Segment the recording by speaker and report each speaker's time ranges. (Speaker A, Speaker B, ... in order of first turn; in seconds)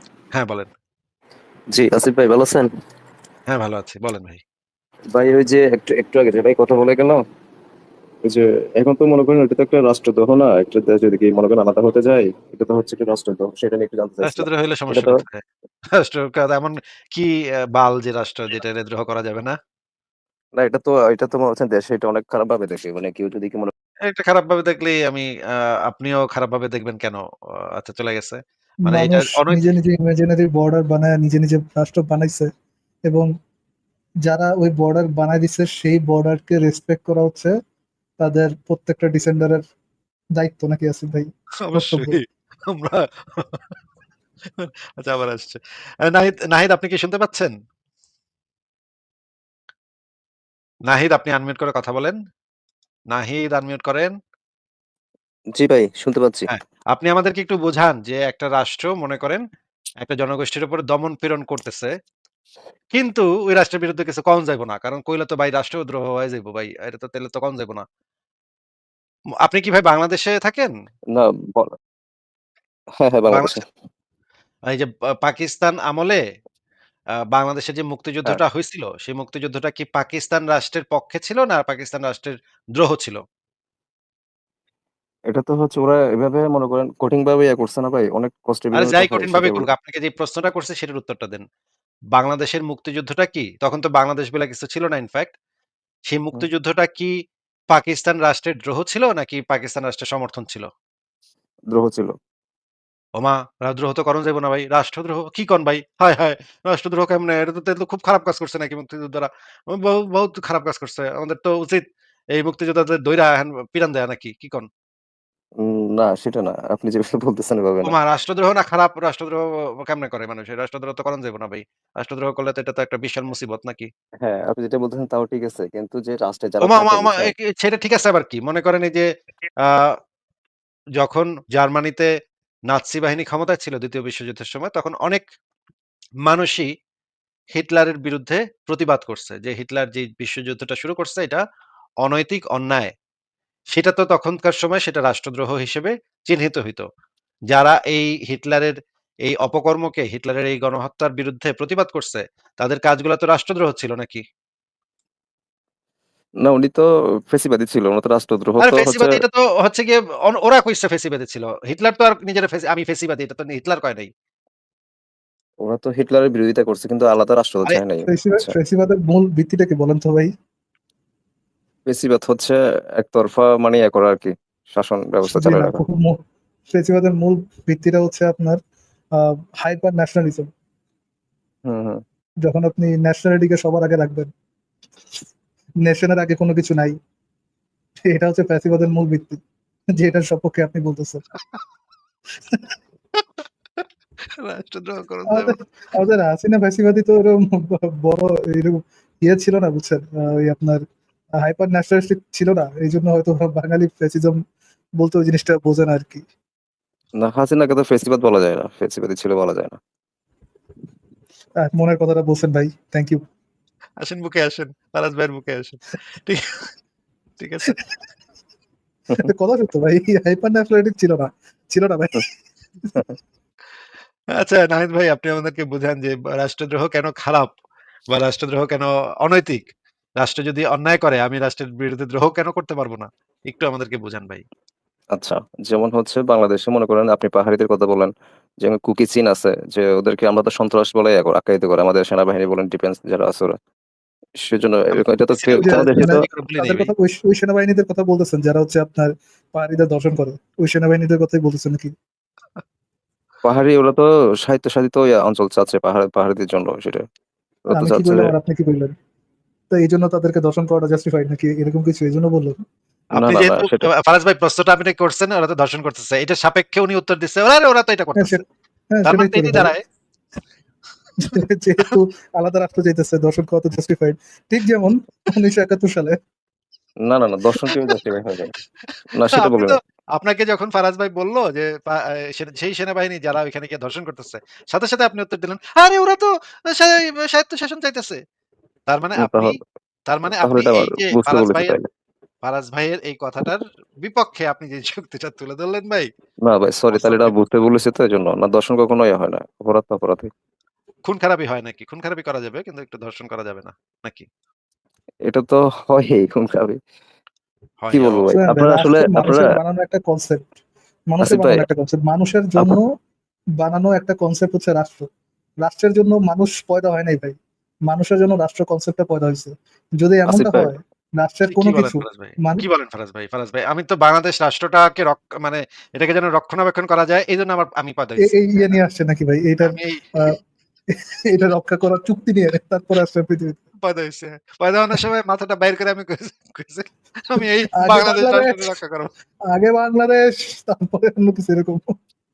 Speaker A: 0.3-0.7, 3.5-4.4, 14.2-19.6, 24.1-25.3, 25.9-27.2, 27.8-29.7, 41.6-43.7, 44.6-47.5, 50.9-52.1, 53.1-54.1, 56.5-59.4, 60.0-61.9, 62.9-67.8, 69.4-70.7, 73.3-73.6, 74.7-76.2, 77.3-83.2, 88.7-91.4, 92.1-95.3, 96.1-97.1, 97.7-100.7, 103.2-111.8, 112.3-114.7, 117.8-123.9, 126.6-129.1, 129.6-129.9, 131.0-132.1, 132.7-135.2, 136.3-136.7, 137.5-141.4, 142.0-142.9, 143.7-146.9, 147.5-148.7, 149.2-154.2, 158.6-164.1, 194.4-195.5, 214.0-216.4, 217.4-217.7, 224.4-227.5, 228.1-229.6, 230.2-234.4, 245.3-246.9, 263.1-268.4, 269.0-269.8, 278.9-288.2, 288.9-291.7, 292.4-296.1, 296.9-297.4, 301.0-304.3, 307.8-308.3, 321.5-328.8, 329.6-330.0, 333.8-339.1
Speaker B: 1.7-2.7, 5.1-7.2, 8.2-15.2, 20.6-23.7, 55.5-56.5, 71.1-71.7, 73.0-73.6, 85.3-89.7, 101.7-102.2, 115.6-118.0, 124.2-127.3, 156.4-159.2, 165.6-168.6, 171.9-175.8, 181.7-182.0, 207.2-209.8, 235.1-238.1, 238.6-243.6, 244.4-246.2, 253.4-257.0, 257.7-258.3, 263.1-263.9, 277.0-278.5, 279.1-279.8, 289.1-289.6, 290.4-291.8, 296.4-300.3, 305.2-306.8, 307.9-309.5, 311.2-311.7, 320.2-320.7
Speaker C: 28.8-32.5, 34.2-37.5, 38.2-39.6, 40.3-42.2, 167.9-170.3, 175.2-178.6, 179.1-180.5, 182.4-184.3, 185.8-187.0, 188.0-189.4, 189.9-191.2, 195.2-204.4, 205.0-206.2, 211.6-213.2, 219.1-223.1, 245.5-251.9, 257.7-258.9, 259.7-262.6, 268.1-269.8, 271.2-276.2, 308.3-310.5, 311.1-312.9, 313.6-315.1, 315.6-322.7, 328.2-330.4, 330.9-333.6, 337.4-338.8, 339.4-341.9